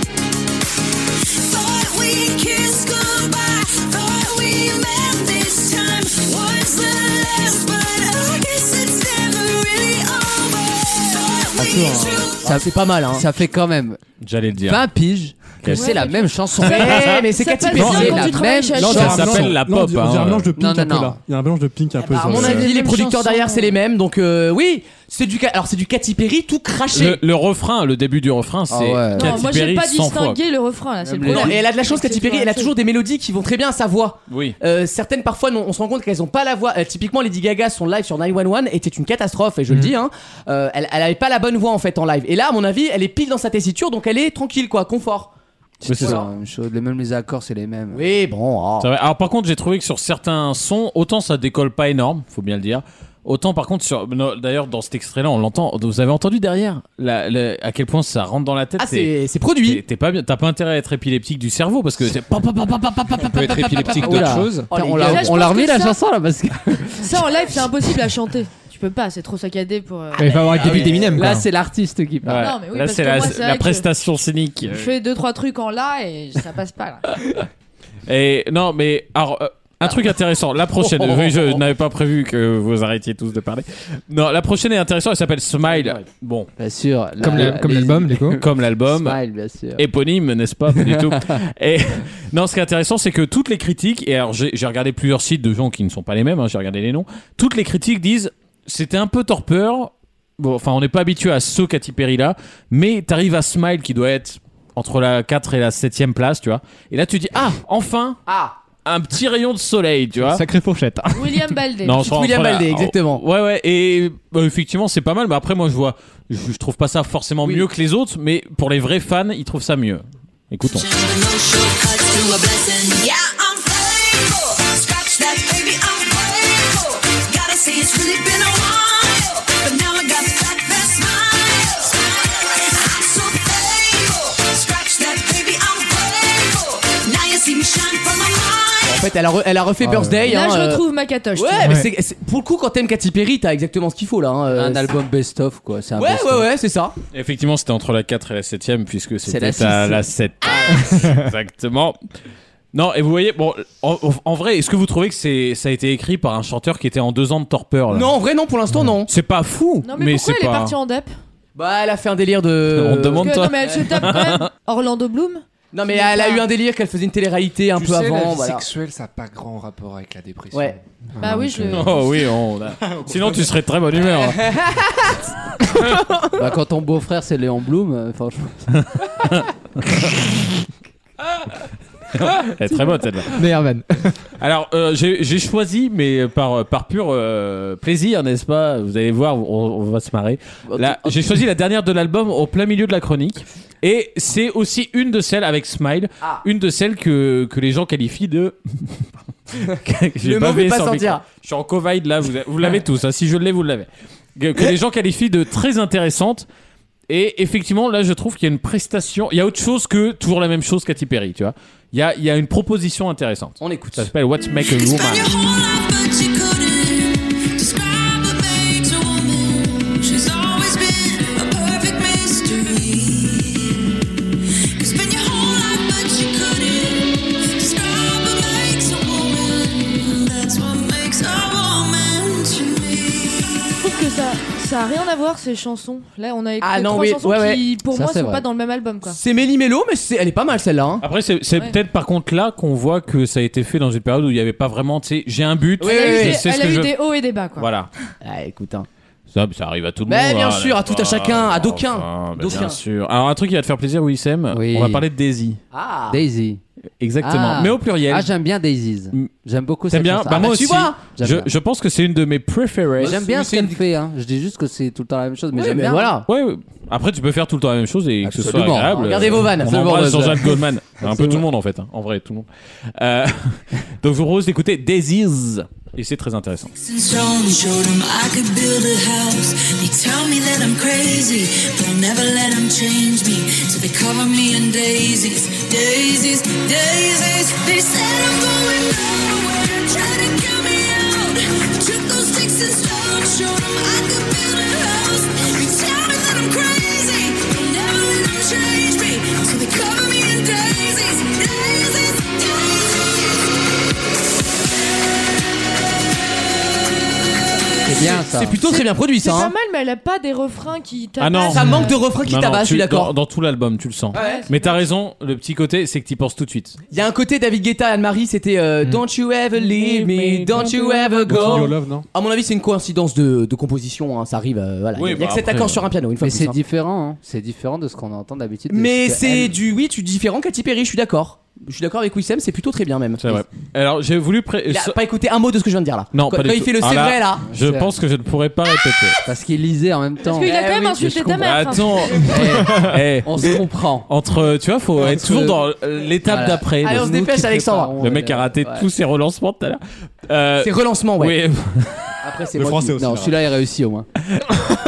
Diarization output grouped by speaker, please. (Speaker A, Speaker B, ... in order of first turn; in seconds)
Speaker A: 1.4-12.4, 120.7-139.0, 214.6-223.8, 224.8-233.7, 276.7-303.4, 307.6-308.1
Speaker B: 12.4-14.0, 14.6-17.2, 17.7-19.5, 20.5-21.2, 28.7-29.4, 31.0-31.6, 45.8-48.0, 63.8-67.6, 70.5-72.5, 80.8-81.6, 86.6-88.3, 88.9-89.8, 90.7-91.4, 144.5-146.5, 149.2-150.0, 176.3-178.7, 237.9-238.4, 254.5-255.0, 256.1-256.6, 257.2-261.5, 263.0-266.2, 268.2-271.3, 307.8-308.6, 326.2-329.5, 337.5-337.9, 339.2-341.5, 342.1-344.1, 345.1-345.5, 346.2-348.9, 352.9-354.1
Speaker C: 12.4-13.2, 16.6-18.4, 22.0-27.2, 31.2-45.3, 46.0-46.3, 47.9-48.9, 58.8-59.8, 63.6-65.4, 70.5-71.0, 85.7-86.0, 108.3-108.5, 112.0-113.2, 138.8-140.8, 141.3-144.9, 145.9-146.9, 150.4-151.0, 157.9-159.1, 161.6-164.2, 165.7-168.6, 170.5-170.8, 174.1-175.2, 190.7-191.2, 200.2-201.2, 213.6-214.1, 236.6-237.6, 239.1-241.0, 245.8-246.4, 248.2-248.9, 250.1-252.8, 255.7-256.2, 260.3-261.0, 263.0-263.8, 265.5-266.3, 269.0-269.9, 271.0-271.3, 308.2-309.5, 311.5-313.1, 314.1-314.4, 316.9-326.6, 328.7-333.4, 334.7-337.4, 340.4-340.9, 346.8-347.9, 350.6-351.4, 352.2-353.1
Speaker D: 14.2-14.8, 15.6-16.0, 16.6-18.2, 18.8-20.5, 26.9-30.4, 34.3-34.5, 45.8-46.2, 48.8-59.1, 59.6-64.1, 72.2-74.9, 78.1-86.5, 87.2-87.5, 88.3-89.2, 89.8-108.2, 108.8-110.4, 111.8-120.8, 147.1-152.0, 152.7-158.1, 159.1-160.7, 162.7-164.5, 171.7-174.5, 178.7-180.3, 182.1-183.4, 184.4-199.0, 199.6-206.4, 207.1-215.3, 241.0-246.9, 247.6-247.9, 249.3-255.6, 257.0-258.3, 259.9-263.2, 266.3-276.7, 311.2-316.8, 319.6-320.8, 324.9-325.9, 333.2-335.0, 336.1-339.2, 341.3-347.1, 348.0-352.1, 354.4-354.7
Speaker E: 15.7-19.3, 22.2-23.8, 29.1-32.7, 65.0-66.0, 67.0-70.3, 72.4-73.8, 74.7-77.1, 111.1-112.1, 140.2-141.8, 159.8-161.1, 163.2-166.4, 171.2-172.0, 233.8-239.2, 245.8-247.7, 308.6-312.0, 314.1-314.9, 320.6-321.6, 340.2-342.1
Speaker F: 18.8-22.7, 321.2-322.1, 352.5-353.3
Speaker G: 63.2-64.7, 167.7-172.2
Speaker H: 70.2-71.5, 87.2-88.4, 110.2-111.5, 141.6-141.9, 183.3-184.2